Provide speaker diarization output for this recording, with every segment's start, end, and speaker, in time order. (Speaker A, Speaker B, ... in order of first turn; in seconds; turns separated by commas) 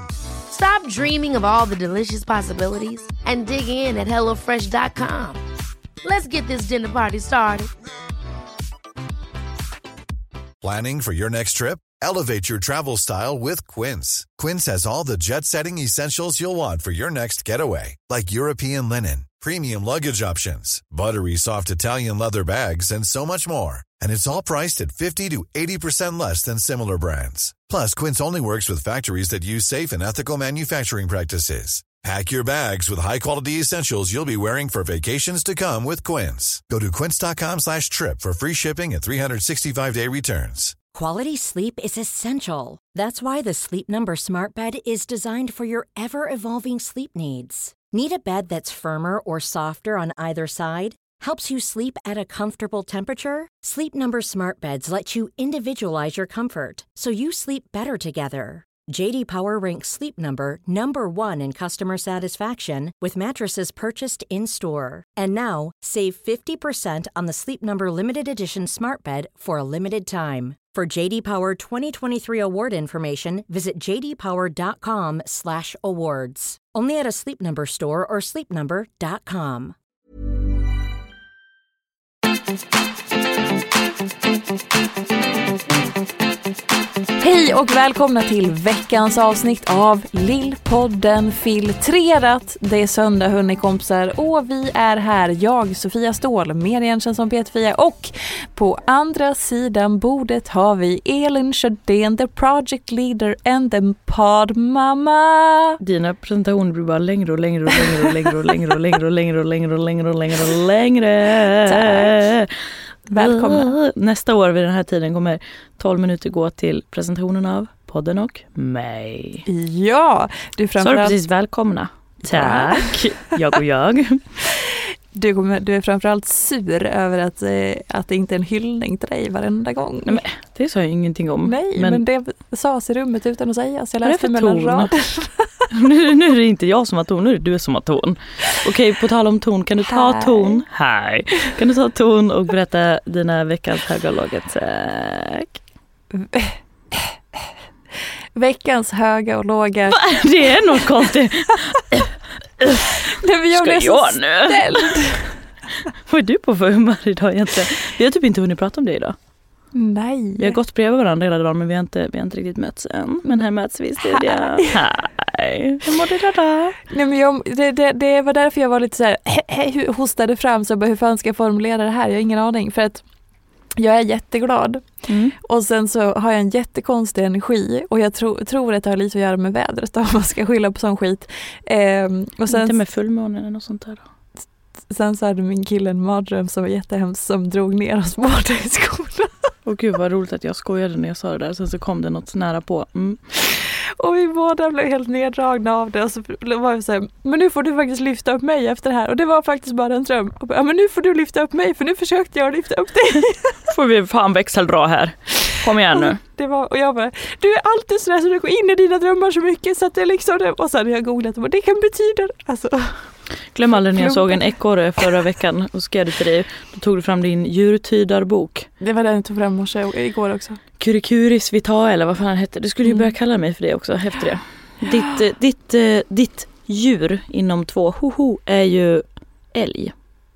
Speaker A: 0.5-5.4, Speaker A: 6.0-7.7, Speaker B: 10.6-40.8, Speaker C: 40.9-79.8, Speaker D: 87.2-105.8, Speaker E: 105.8-112.5, Speaker D: 111.7-112.2, Speaker D: 113.1-113.7, Speaker E: 113.2-119.4, Speaker D: 119.5-121.2, Speaker E: 120.8-124.2, Speaker D: 122.3-123.0, Speaker D: 125.1-130.2, Speaker E: 130.1-132.0, Speaker D: 131.4-135.5, Speaker E: 134.0-134.9, Speaker E: 135.7-145.6, Speaker D: 139.9-140.6, Speaker D: 146.1-147.2, Speaker D: 148.4-150.0, Speaker E: 149.9-155.2, Speaker D: 153.1-155.4, Speaker E: 156.1-159.2, Speaker D: 159.7-160.6, Speaker E: 160.4-166.8, Speaker D: 164.1-164.7, Speaker D: 166.9-173.0, Speaker D: 173.8-174.9, Speaker E: 175.1-175.3, Speaker D: 175.4-182.7, Speaker E: 182.5-184.0, Speaker D: 184.9-189.3, Speaker E: 189.7-193.2, Speaker D: 194.0-203.6, Speaker E: 203.7-206.2, Speaker D: 205.9-213.1, Speaker E: 213.5-218.7, Speaker D: 213.9-215.1, Speaker D: 218.8-220.6, Speaker E: 220.8-229.9, Speaker D: 222.8-223.1